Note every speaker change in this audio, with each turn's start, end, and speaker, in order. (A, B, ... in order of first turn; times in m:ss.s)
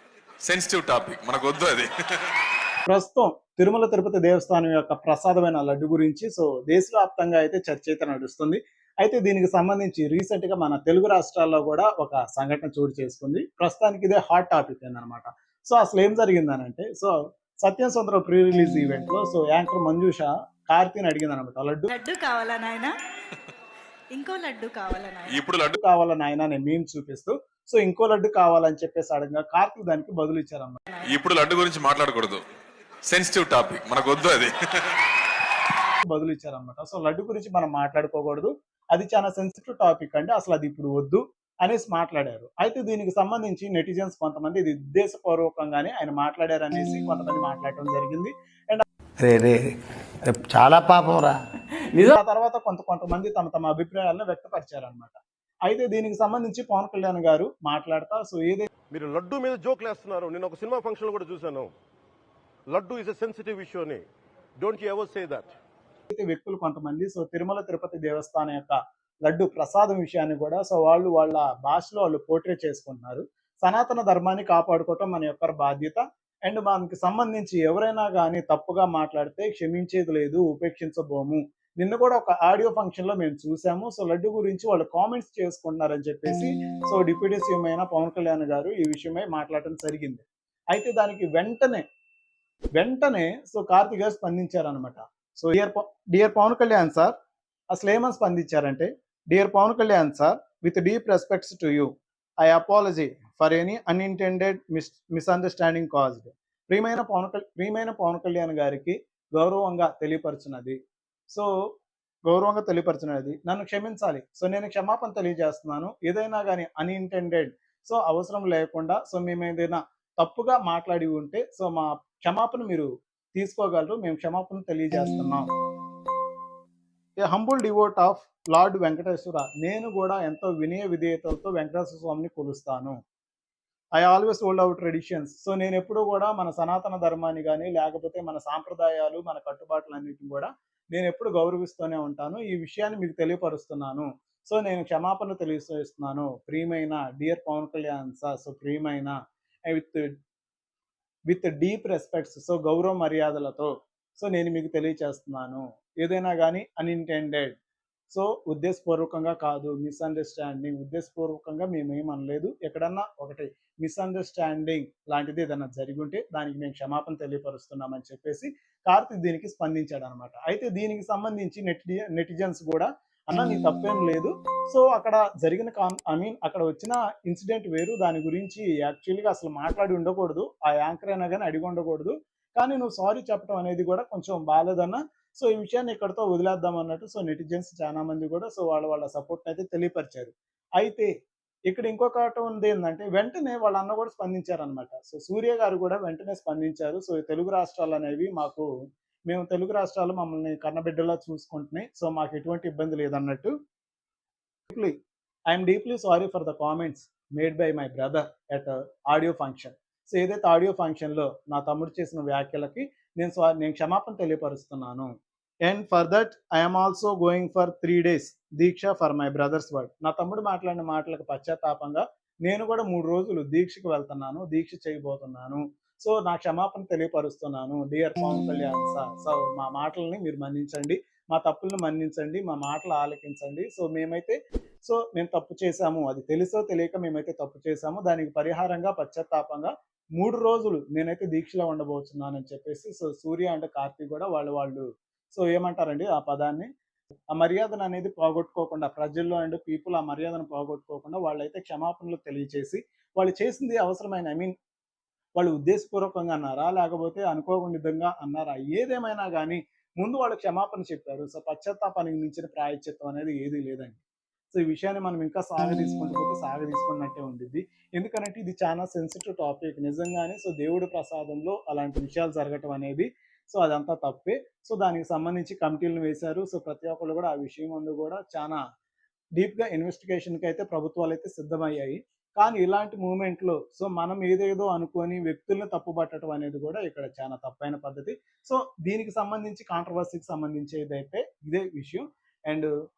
0:00.4-0:01.9 A
0:02.8-0:21.9 B
0:21.9-0:22.9 C
0:24.1-0:25.4 C
0:25.3-0:25.7 A
0:25.7-0:30.8 B
0:31.0-0:32.4 A
0:33.1-0:35.0 A
0:36.0-0:48.8 B
0:49.2-0:51.4 D
0:52.0-0:58.7 B
0:58.9-1:01.7 E
1:02.7-1:04.0 E
1:04.6-1:05.5 E
1:06.1-1:31.8 B
1:32.8-1:37.1 B
1:37.7-1:50.8 B
1:52.3-2:05.4 B
2:07.2-2:12.9 B
2:14.0-2:29.1 B
2:29.7-2:30.1 B
2:31.3-2:37.5 B
2:38.1-3:11.1 B
3:11.7-3:18.7 B
3:19.3-3:23.5 B
3:24.7-3:25.0 B
3:25.5-3:35.1 B
3:35.6-4:06.7 B
4:07.3-4:14.5 B
4:15.4-4:24.0 B
4:24.5-4:38.6 B
4:39.4-4:52.7 B